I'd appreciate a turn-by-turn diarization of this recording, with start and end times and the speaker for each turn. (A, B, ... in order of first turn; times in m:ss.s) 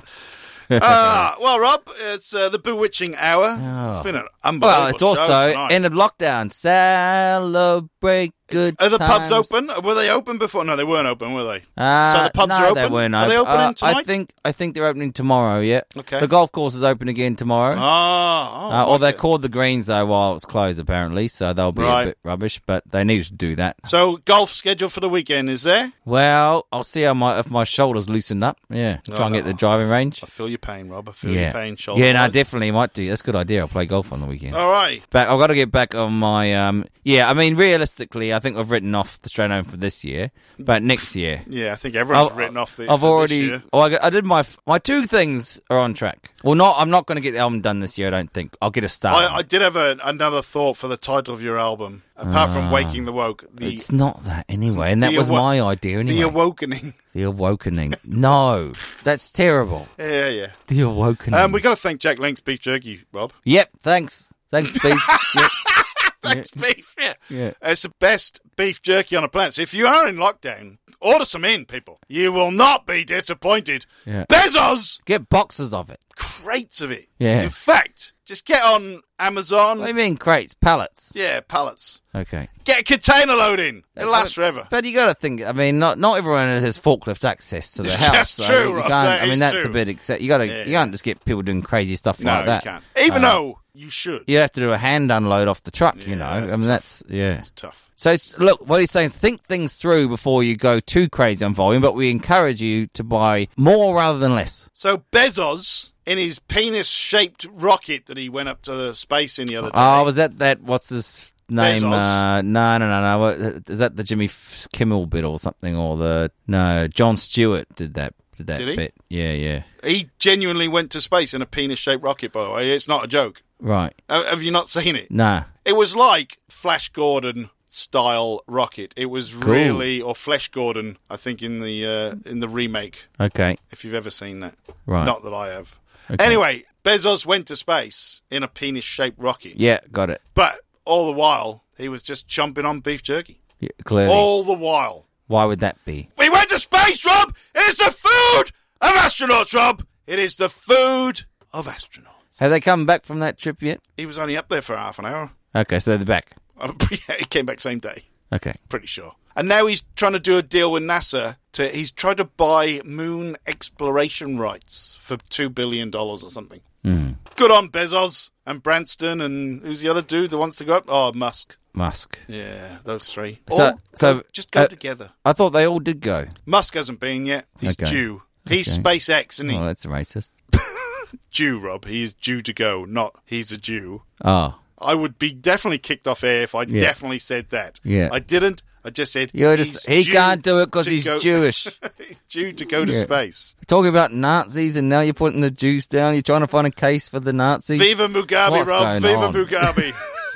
0:00.7-0:01.3 A
0:00.7-0:05.8 B
0:03.6-0:09.5 A
0:08.5-0:14.1 B
0:11.8-0:17.8 A
0:16.0-0:16.3 B
0:17.7-0:19.2 B
0:18.7-0:23.8 A
0:21.7-0:22.1 B
0:23.9-0:25.9 B
0:26.1-0:30.2 A
0:29.1-0:32.4 B
0:31.2-0:41.5 A
0:34.5-0:35.0 B
0:41.5-0:43.6 B
0:42.1-0:49.4 A
0:49.1-0:53.9 B
0:52.2-0:53.0 A
0:53.6-0:56.4 A
0:54.7-0:55.5 B
0:56.0-0:57.0 B
0:57.1-0:59.9 A
1:00.0-1:00.6 B
1:00.7-1:01.6 A
1:01.3-1:03.4 B
1:03.5-1:05.6 A
1:04.6-1:15.0 B
1:06.3-1:06.6 A
1:07.3-1:07.6 A
1:15.1-1:16.0 A
1:16.2-1:19.9 B
1:17.2-1:17.5 A
1:19.8-1:21.1 A
1:21.1-1:22.0 B
1:22.1-1:22.5 A
1:22.6-1:24.7 B
1:24.0-1:33.4 A
1:27.8-1:29.8 B
1:30.4-1:30.9 B
1:32.2-1:34.3 B
1:34.3-1:37.4 A
1:35.9-1:36.9 B
1:37.4-1:37.8 B
1:38.0-1:44.7 A
1:44.8-1:50.1 B
1:49.6-1:59.6 A
1:51.6-1:52.2 B
1:58.6-1:58.8 B
1:59.8-2:03.4 B
2:03.6-2:04.0 A
2:04.1-2:13.1 B
2:05.1-2:05.5 A
2:09.4-2:09.9 A
2:13.2-2:13.6 A
2:13.7-2:19.6 B
2:14.9-2:15.2 A
2:16.1-2:16.4 A
2:19.6-2:20.2 A
2:20.3-2:23.4 B
2:23.6-2:24.3 A
2:24.0-2:25.1 B
2:25.3-2:26.1 A
2:26.2-2:32.4 B
2:32.4-2:33.8 A
2:34.0-2:35.3 B
2:35.5-2:36.4 A
2:36.6-2:38.1 B
2:38.3-2:38.6 A
2:38.7-2:46.6 B
2:46.8-2:47.2 A
2:47.3-2:51.6 B
2:51.7-2:52.2 A
2:52.3-2:55.1 B
2:53.5-2:56.3 A
2:56.5-2:59.6 B
2:57.6-2:58.9 A
2:59.5-3:00.3 A
3:00.5-3:04.0 B
3:04.2-3:04.6 A
3:04.8-3:13.5 B
3:06.7-3:06.9 A
3:07.9-3:08.2 A
3:09.3-3:11.8 A
3:12.8-3:19.8 A
3:17.7-3:20.0 B